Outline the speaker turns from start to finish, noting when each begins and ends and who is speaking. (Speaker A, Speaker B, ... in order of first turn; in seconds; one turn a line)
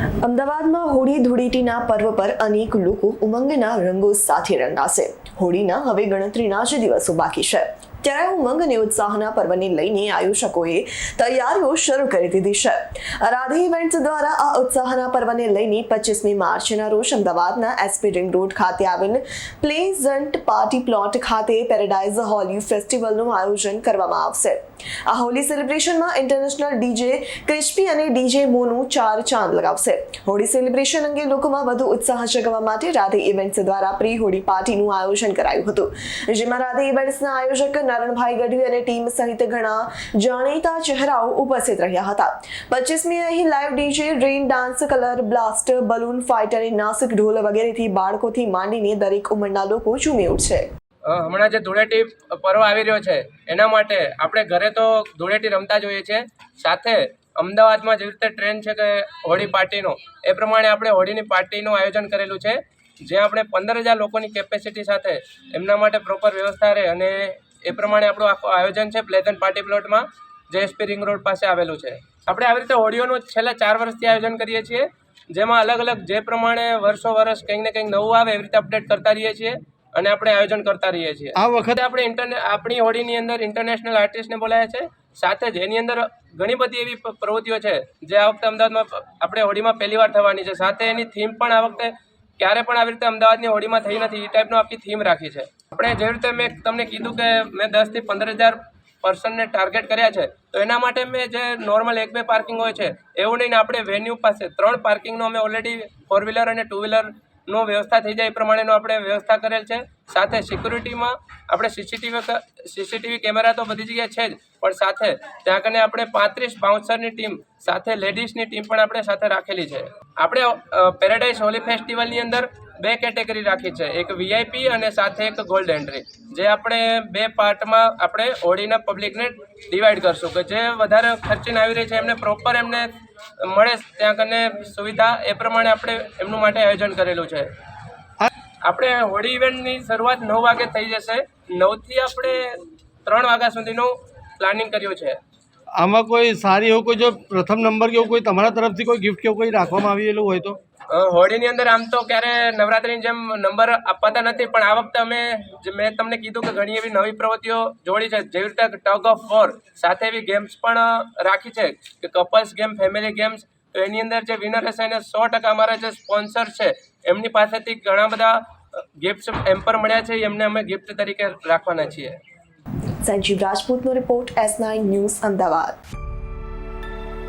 Speaker A: 0.2-50.6
Speaker B: 51.0-137.5
Speaker C: 81.3-81.8
Speaker B: 138.6-145.2
Speaker C: 145.8-150.6
Speaker B: 150.9-172.2
Speaker A: 173.0-175.8